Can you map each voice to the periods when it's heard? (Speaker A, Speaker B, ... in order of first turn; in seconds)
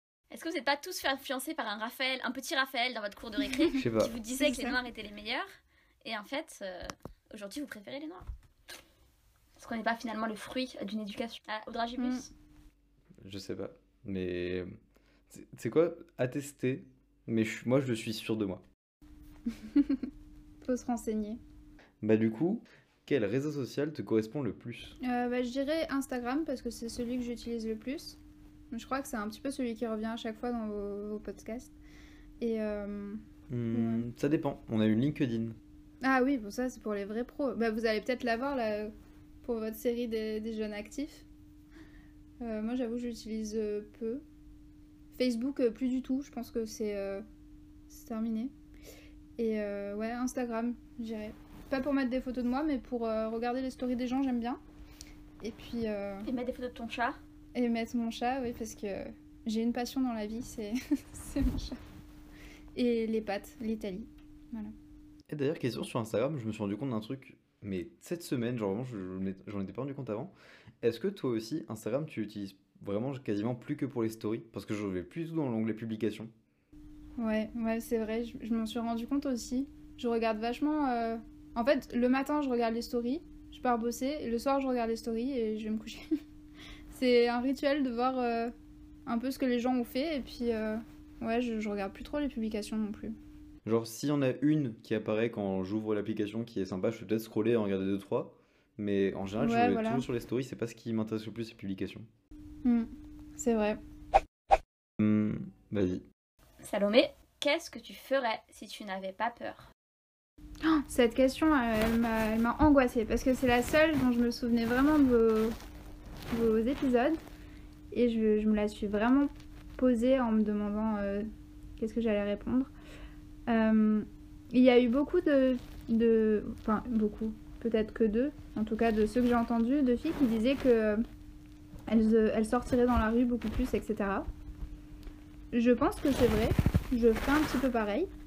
Speaker A: 0.3-5.5, 6.0-8.2, 9.6-12.3, 56.2-57.2, 106.6-109.7
Speaker B: 3.7-4.1, 13.2-14.7, 15.3-18.6, 22.0-24.9, 33.5-35.6, 65.3-76.3, 93.6-102.1, 105.0-106.0
Speaker C: 4.3-4.8, 12.0-12.2, 19.6-20.0, 20.6-21.4, 25.0-28.2, 28.7-31.7, 32.4-34.0, 36.0-38.9, 39.4-41.2, 42.4-44.2, 45.1-47.2, 47.9-48.5, 49.4-54.6, 55.4-56.3, 57.5-61.8, 62.7-64.7, 77.2-86.1, 86.9-88.5, 89.0-93.1, 99.4-100.0, 102.6-103.8, 110.6-115.5, 116.3-117.2, 117.9-121.3, 121.8-122.7, 123.5-131.0, 131.9-134.3, 135.5-138.1